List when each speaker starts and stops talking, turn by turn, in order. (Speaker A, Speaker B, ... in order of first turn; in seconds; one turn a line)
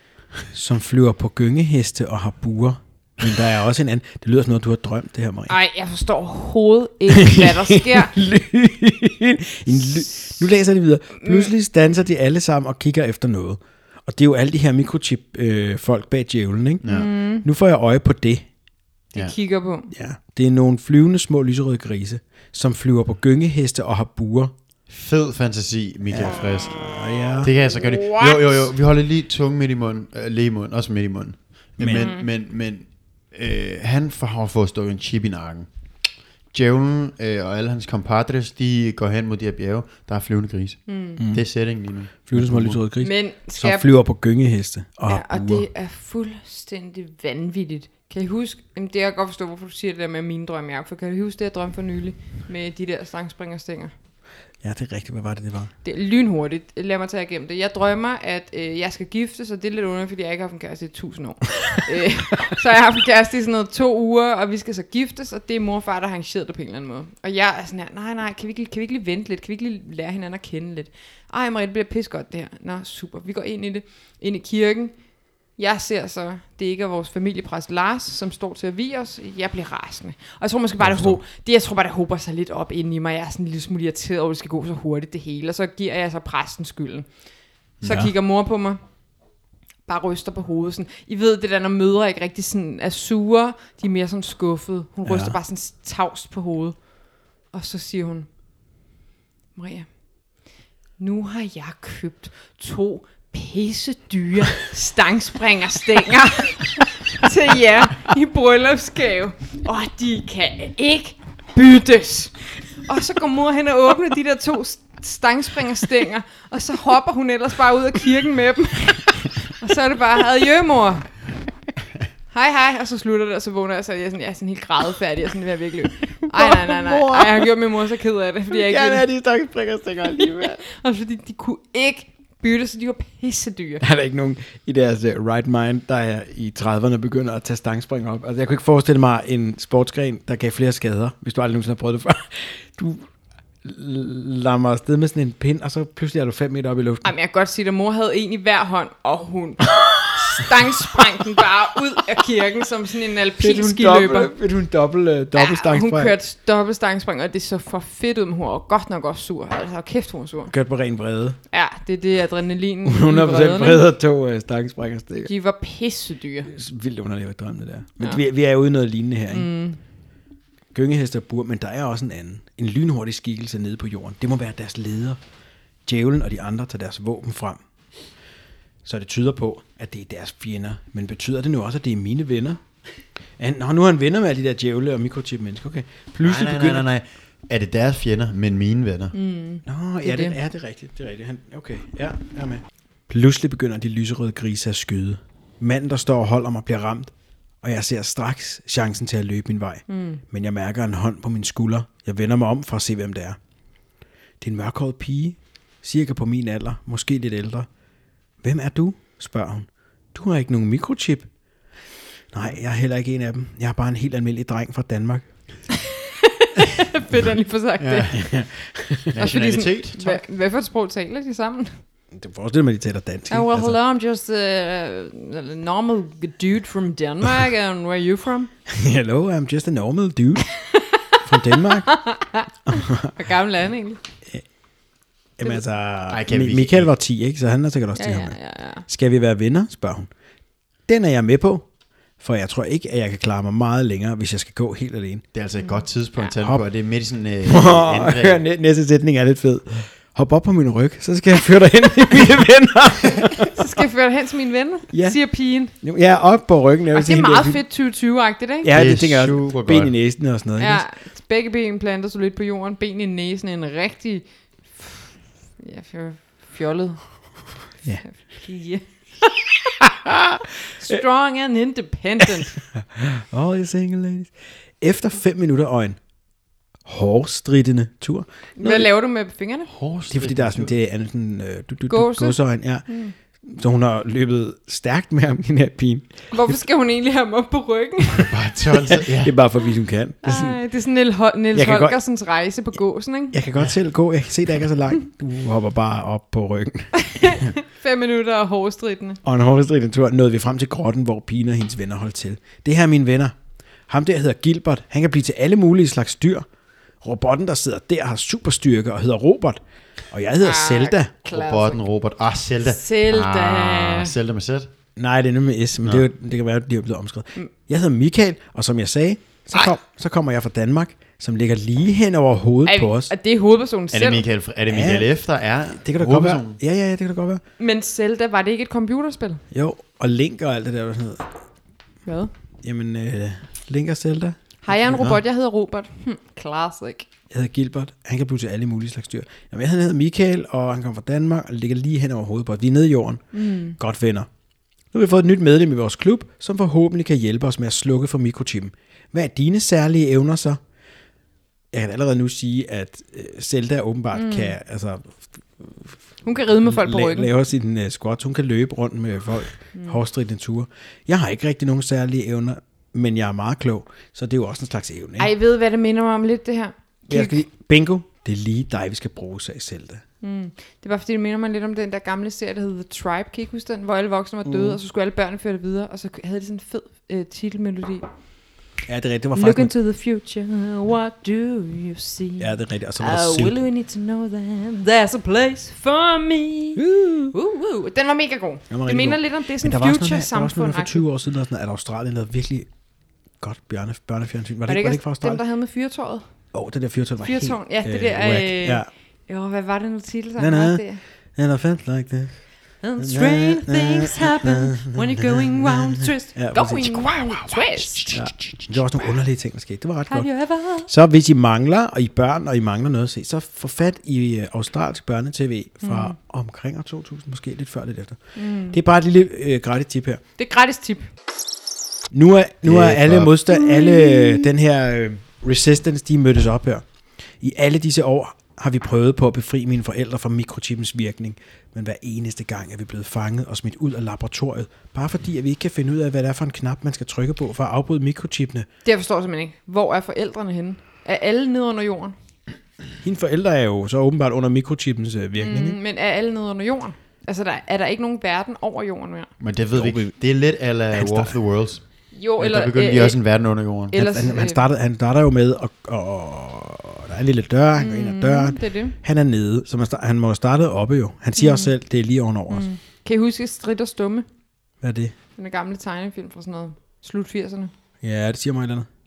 Speaker A: 0.5-5.5
Speaker B: 5.5-8.1
Speaker A: 7.1-18.5
Speaker B: 11.2-11.5
Speaker C: 16.8-17.1
Speaker B: 16.9-17.4
Speaker B: 19.1-19.9
Speaker A: 19.9-24.5
Speaker C: 24.9-35.7
Speaker A: 26.1-27.5
Speaker B: 27.6-28.7
Speaker A: 31.8-32.1
Speaker B: 31.9-32.2
Speaker C: 36.5-42.8
Speaker B: 40.9-41.2
Speaker A: 41.2-41.4
Speaker A: 42.2-45.7
Speaker B: 43.0-43.9
Speaker B: 45.1-53.9
Speaker A: 54.6-55.7
Speaker B: 55.8-87.1
Speaker B: 87.8-88.8
Speaker A: 87.8-88.1
Speaker B: 89.8-98.3
Speaker A: 95.0-95.4
Speaker B: 99.5-99.9
Speaker B: 101.0-121.1
Speaker B: 122.3-129.1
Speaker A: 126.3-127.5
Speaker A: 128.5-130.6
Speaker B: 130.2-133.8
Speaker A: 133.8-143.1
Speaker A: 143.6-147.1
Speaker B: 147.0-154.3
Speaker A: 153.4-156.2
Speaker B: 155.3-160.5
Speaker A: 160.5-161.4
Speaker B: 161.5-163.9
Speaker A: 162.8-165.3
Speaker B: 165.2-166.5
Speaker A: 166.5-169.5
Speaker B: 169.3-169.8
Speaker A: 170.7-175.2
Speaker A: 175.8-177.6
Speaker A: 178.8-182.6
Speaker A: 183.4-186.9
Speaker C: 186.2-189.1
Speaker B: 189.1-190.3
Speaker A: 189.6-203.4
Speaker B: 199.9-200.2
Speaker A: 204.4-207.7
Speaker A: 208.4-211.3
Speaker A: 212.3-215.2
Speaker B: 216.1-218.2
Speaker C: 217.8-218.2
Speaker A: 218.1-219.2
Speaker C: 219.1-220.2
Speaker B: 219.2-221.8
Speaker A: 222.1-223.8
Speaker B: 223.3-228.5
Speaker A: 228.7-230.5
Speaker A: 231.2-232.0
Speaker B: 231.9-234.0
Speaker A: 232.7-233.1
Speaker A: 235.4-240.1
Speaker C: 236.1-236.9
Speaker B: 237.9-238.8
Speaker A: 240.9-241.7
Speaker A: 242.2-245.2
Speaker C: 245.3-248.4
Speaker B: 245.6-246.3
Speaker A: 247.4-253.6
Speaker B: 253.5-255.7
Speaker A: 254.9-257.6
Speaker B: 256.9-258.7
Speaker A: 258.6-260.8
Speaker C: 258.7-259.9
Speaker B: 260.6-267.1
Speaker B: 268.0-268.8
Speaker A: 269.8-271.0
Speaker B: 270.8-272.6
Speaker A: 272.7-276.0
Speaker A: 276.8-278.9
Speaker B: 278.6-279.7
Speaker C: 279.7-280.7
Speaker A: 280.1-282.9
Speaker B: 281.9-283.1
Speaker A: 283.4-286.6
Speaker B: 286.3-288.3
Speaker C: 288.1-289.3
Speaker A: 289.1-290.6
Speaker B: 290.2-293.4
Speaker A: 291.5-292.0
Speaker A: 293.3-296.9
Speaker B: 297.0-299.2
Speaker A: 299.2-303.3
Speaker A: 303.9-306.5
Speaker A: 307.0-311.1
Speaker B: 310.4-311.8
Speaker C: 311.3-314.7
Speaker B: 312.6-314.1
Speaker A: 314.9-323.1
Speaker B: 322.6-324.2
Speaker C: 323.9-326.6
Speaker A: 324.7-325.1
Speaker A: 325.8-327.4
Speaker B: 327.6-329.4
Speaker A: 329.5-331.3
Speaker B: 332.1-332.3
Speaker A: 332.6-335.0
Speaker B: 334.6-337.1
Speaker C: 334.9-335.2
Speaker A: 337.3-343.2
Speaker B: 343.3-343.8
Speaker A: 343.8-344.3
Speaker A: 344.9-350.6
Speaker A: 351.7-355.9
Speaker B: 354.1-354.5
Speaker B: 356.2-357.3
Speaker A: 356.6-365.3
Speaker B: 359.7-360.0
Speaker B: 365.2-367.4
Speaker A: 367.1-370.0
Speaker B: 370.2-378.1
Speaker A: 374.4-374.8
Speaker A: 378.9-379.7
Speaker B: 379.3-391.0
Speaker A: 382.4-383.6
Speaker A: 386.8-387.4
Speaker A: 388.7-392.7
Speaker A: 393.4-395.4
Speaker B: 394.6-396.2
Speaker A: 396.5-398.9
Speaker B: 397.2-401.0
Speaker A: 400.4-400.8
Speaker A: 401.4-402.4
Speaker B: 402.8-408.2
Speaker A: 403.0-407.2
Speaker C: 407.8-408.7
Speaker A: 408.1-410.3
Speaker B: 410.1-410.9
Speaker A: 410.9-420.2
Speaker B: 415.8-416.1
Speaker B: 418.4-418.8
Speaker B: 420.4-421.1
Speaker A: 422.1-426.8
Speaker C: 422.6-423.3
Speaker B: 423.6-424.4
Speaker A: 427.4-438.7
Speaker B: 438.8-442.1
Speaker A: 443.0-445.8
Speaker B: 445.4-449.3
Speaker C: 449.4-451.8
Speaker A: 449.7-450.1
Speaker A: 450.9-451.3
Speaker B: 452.1-453.2
Speaker C: 452.4-454.0
Speaker B: 453.9-454.6
Speaker A: 453.9-462.6
Speaker B: 457.8-458.9
Speaker B: 461.4-461.7
Speaker B: 462.5-464.2
Speaker A: 464.8-465.1
Speaker B: 465.4-467.7
Speaker A: 468.0-468.9